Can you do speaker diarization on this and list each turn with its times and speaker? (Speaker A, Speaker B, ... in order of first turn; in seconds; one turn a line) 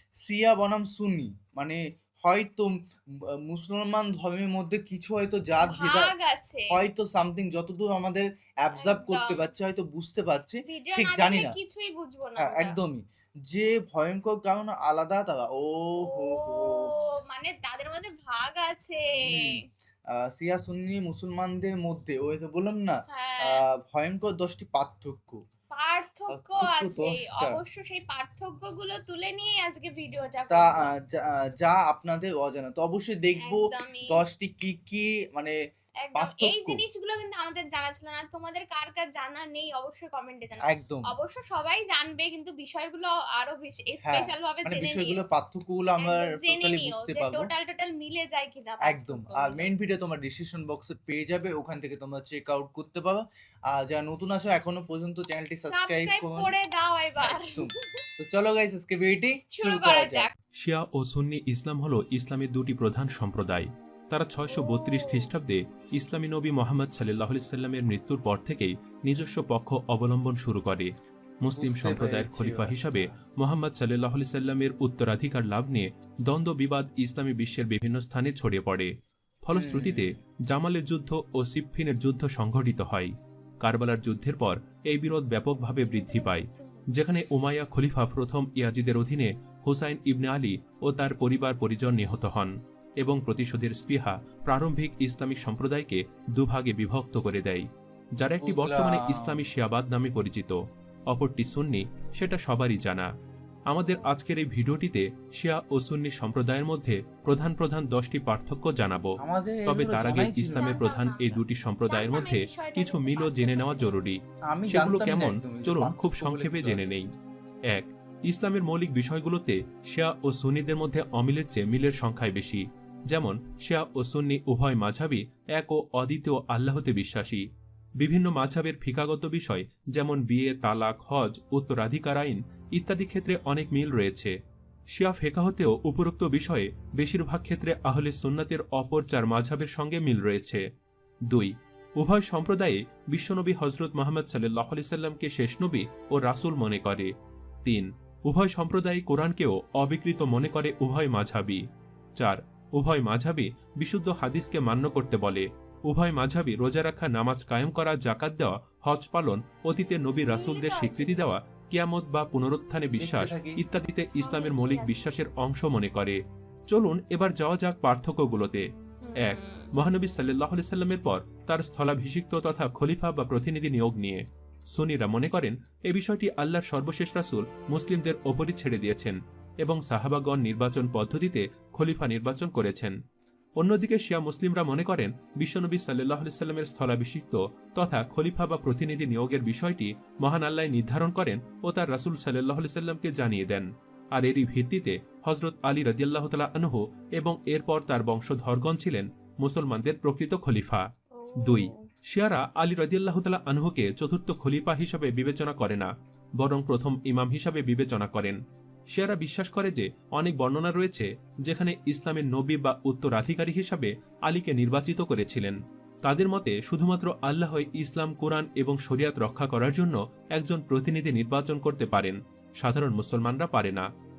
Speaker A: 0.3-2.7
Speaker A: 3.5-6.1
Speaker B: 5.6-6.7
Speaker A: 6.7-11.5
Speaker B: 8.8-9.5
Speaker B: 10.7-12.8
Speaker A: 12.4-16.8
Speaker B: 16.1-19.6
Speaker A: 19.3-19.6
Speaker A: 20.3-25.4
Speaker B: 23.1-23.6
Speaker B: 25.7-30.9
Speaker A: 26.3-27.6
Speaker A: 30.5-35.5
Speaker B: 33.4-34.2
Speaker B: 36.0-45.2
Speaker A: 36.1-36.8
Speaker A: 40.6-41.1
Speaker A: 44.0-47.5
Speaker B: 46.0-49.7
Speaker A: 48.9-56.5
Speaker B: 55.6-58.0
Speaker A: 57.2-60.2
Speaker B: 59.5-60.3
Speaker C: 60.6-70.9
Speaker B: 64.5-65.3
Speaker C: 71.4-78.9
Speaker A: 71.5-73.1
Speaker C: 79.4-83.1
Speaker A: 79.5-80.1
Speaker C: 83.6-100.5
Speaker B: 85.6-86.9
Speaker A: 98.4-99.4
Speaker C: 101.1-103.1
Speaker C: 103.7-117.1
Speaker A: 109.2-110.8
Speaker B: 110.5-114.0
Speaker A: 114.5-116.9
Speaker C: 117.7-127.4
Speaker C: 128.0-134.3
Speaker C: 134.9-140.6
Speaker C: 141.3-147.1
Speaker C: 147.6-151.6
Speaker C: 152.2-166.2
Speaker B: 160.2-161.3
Speaker A: 163.0-163.6
Speaker B: 164.2-165.2
Speaker C: 166.7-168.7
Speaker B: 169.0-169.7
Speaker C: 169.2-182.9
Speaker C: 183.6-200.8
Speaker B: 201.1-201.8
Speaker C: 201.4-208.4
Speaker C: 208.9-223.8